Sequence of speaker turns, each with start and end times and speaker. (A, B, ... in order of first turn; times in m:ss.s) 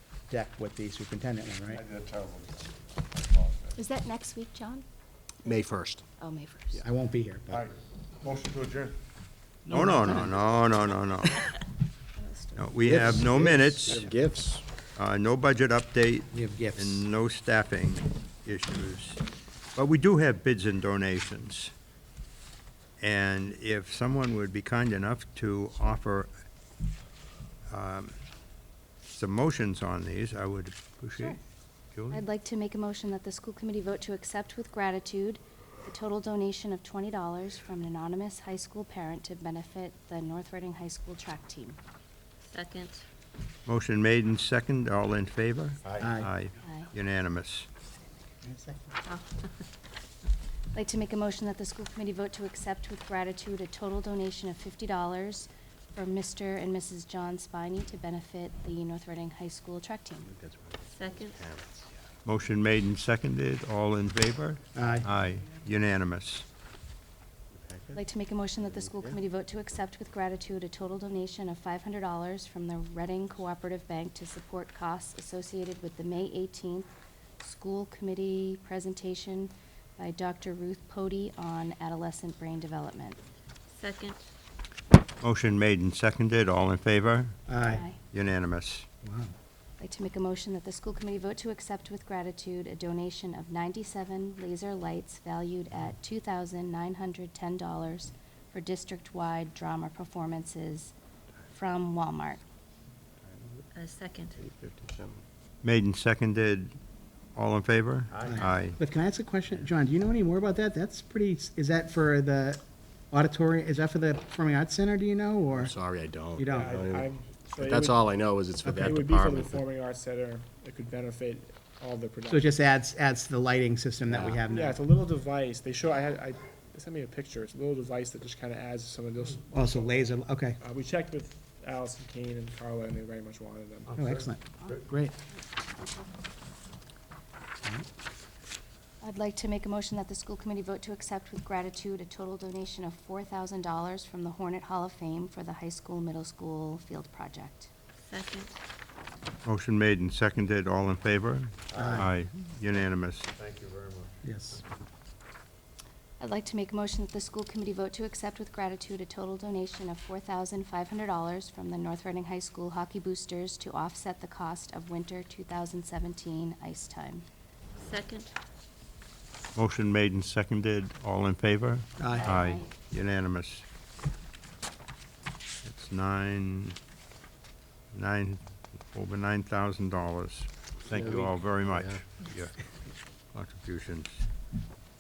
0:00.3-0:01.8 A
0:01.7-0:03.8 B
0:03.8-0:04.8 C
0:05.4-0:06.0 D
0:06.2-0:06.8 C
0:06.8-0:07.6 A
0:07.5-0:09.0 B
0:09.7-0:11.5 E
0:09.7-0:10.3 A
0:12.2-0:12.8 C
0:12.6-0:14.1 E
0:12.8-0:14.6 D
0:15.0-0:19.2 E
0:16.3-0:17.0 A
0:19.7-0:21.7 E
0:23.0-0:26.3 E
0:27.7-0:28.1 E
0:29.1-0:31.4 E
0:31.9-0:32.2 E
0:32.1-0:41.8 C
0:42.5-0:43.0 F
0:43.6-0:47.7 E
0:45.8-0:46.1 B
0:46.0-0:46.3 A
0:46.6-0:46.9 C
0:48.4-0:49.0 A
0:50.7-1:00.3 C
1:00.3-1:02.0 D
1:02.2-1:06.4 E
1:04.7-1:05.1 A
1:07.5-1:08.0 D
1:07.9-1:16.9 C
1:08.6-1:09.2 D
1:17.4-1:23.2 C
1:23.8-1:24.2 F
1:25.2-1:27.4 E
1:27.5-1:27.8 A
1:27.6-1:28.0 C
1:28.0-1:28.9 E
1:29.0-1:29.3 A
1:29.8-1:40.9 C
1:41.5-1:42.4 C
1:43.2-1:43.6 D
1:43.7-1:44.3 F
1:44.4-1:45.2 D
1:45.6-1:46.8 E
1:47.3-1:48.8 E
1:48.1-1:48.5 B
1:48.3-1:55.7 A
1:55.5-1:59.6 D
1:56.4-1:56.8 A
1:56.4-2:02.5 G
2:02.3-2:04.8 A
2:04.1-2:04.4 D
2:04.5-2:13.9 G
2:09.5-2:10.6 A
2:13.9-2:14.9 B
2:13.9-2:15.1 A
2:15.3-2:16.0 C
2:19.0-2:27.7 C
2:28.1-2:28.5 F
2:29.4-2:33.3 E
2:31.7-2:34.2 B
2:31.8-2:32.1 A
2:34.2-2:34.6 A
2:36.2-2:47.2 C
2:47.8-2:48.3 F
2:49.5-2:53.6 E
2:52.0-2:52.3 A
2:52.1-2:52.7 C
2:55.6-2:56.8 E
2:57.9-3:02.6 E
3:00.9-3:02.0 D
3:03.3-3:04.2 E